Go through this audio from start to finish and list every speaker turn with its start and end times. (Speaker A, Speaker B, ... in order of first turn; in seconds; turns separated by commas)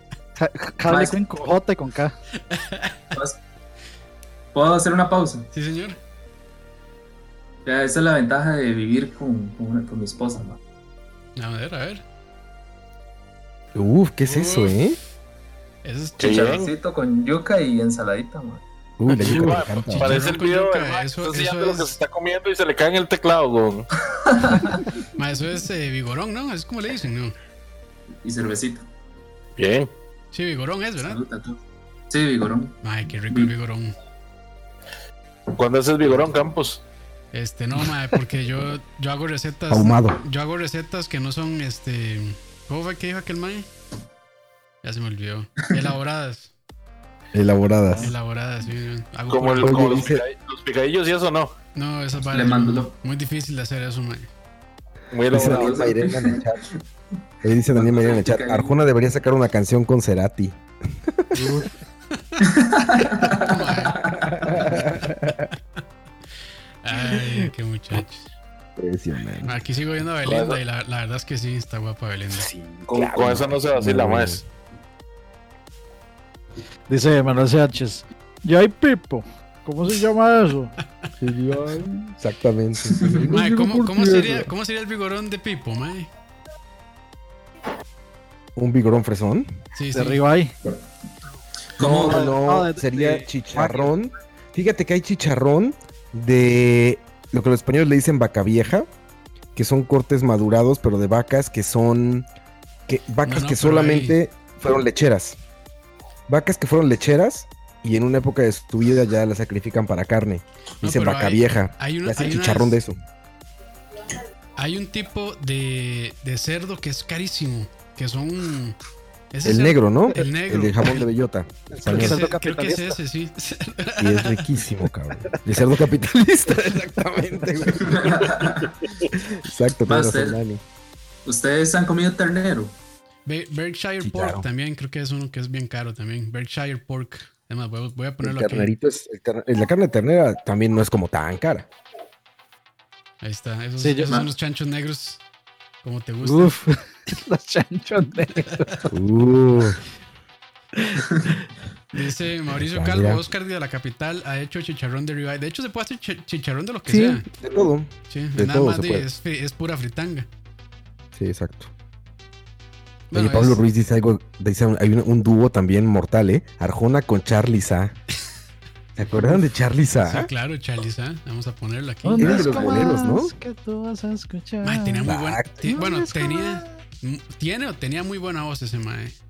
Speaker A: 0.4-2.1, Speaker B: 0.9-1.2, Speaker C: 2.5-2.9, Speaker B: 4.5-5.5, Speaker C: 5.5-6.0, Speaker B: 7.7-10.6, Speaker C: 11.4-12.0, Speaker D: 13.8-15.0, Speaker C: 14.2-14.8, Speaker C: 15.8-16.6, Speaker E: 16.2-16.7, Speaker B: 16.2-18.6, Speaker D: 19.0-20.2, Speaker E: 19.1-23.9, Speaker C: 19.9-22.0, Speaker B: 24.3-24.8, Speaker C: 25.2-27.4, Speaker B: 28.2-28.9, Speaker E: 29.6-29.9, Speaker C: 30.3-31.2, Speaker B: 31.0-31.6, Speaker B: 32.1-32.8, Speaker C: 32.8-34.0, Speaker E: 35.6-36.8, Speaker C: 37.3-43.7, Speaker D: 39.7-40.2, Speaker C: 44.8-46.5, Speaker D: 47.3-48.1, Speaker C: 48.0-50.1, Speaker E: 49.3-51.5, Speaker D: 49.6-50.2, Speaker C: 51.8-54.3, Speaker B: 52.2-53.0, Speaker E: 55.1-55.8, Speaker B: 55.3-56.5, Speaker D: 55.3-56.6, Speaker D: 57.4-60.6, Speaker B: 57.7-58.8, Speaker D: 61.2-61.7, Speaker C: 62.2-62.4, Speaker B: 62.4-64.7, Speaker C: 63.4-64.0, Speaker D: 64.2-65.5, Speaker C: 66.8-68.3, Speaker D: 67.0-67.5, Speaker D: 68.8-69.6, Speaker C: 69.4-72.5, Speaker E: 70.2-70.6, Speaker D: 72.4-74.4, Speaker E: 72.9-74.4, Speaker A: 76.9-80.7, Speaker D: 81.2-84.5, Speaker B: 82.9-83.2, Speaker C: 83.3-86.1, Speaker D: 88.6-89.5, Speaker C: 89.8-90.2, Speaker A: 89.9-90.5, Speaker B: 91.8-92.3, Speaker D: 91.8-98.9, Speaker A: 91.9-93.9, Speaker D: 99.6-102.3, Speaker D: 102.9-105.4, Speaker C: 103.2-104.2, Speaker D: 106.3-113.0, Speaker C: 110.8-112.8, Speaker C: 114.6-118.8, Speaker C: 119.3-121.1, Speaker D: 119.4-122.3, Speaker A: 121.7-123.0, Speaker C: 121.8-124.5, Speaker D: 124.0-128.5, Speaker B: 127.8-128.8, Speaker D: 129.1-130.6, Speaker B: 129.9-130.4, Speaker B: 131.3-132.7, Speaker C: 133.3-138.7, Speaker D: 134.0-134.4, Speaker D: 138.2-141.7, Speaker C: 143.2-145.2, Speaker A: 143.8-144.2, Speaker C: 145.8-146.6, Speaker A: 146.2-148.9, Speaker D: 148.9-149.8, Speaker A: 150.8-151.0, Speaker C: 151.9-157.3, Speaker D: 152.6-153.2, Speaker D: 156.9-159.1, Speaker C: 158.1-160.3, Speaker D: 161.2-161.7, Speaker C: 163.1-163.6, Speaker D: 163.1-168.0, Speaker D: 169.0-170.3, Speaker C: 170.0-172.9, Speaker A: 172.0-175.1, Speaker D: 172.2-173.3, Speaker C: 174.6-179.2, Speaker D: 175.1-176.0, Speaker A: 175.7-176.7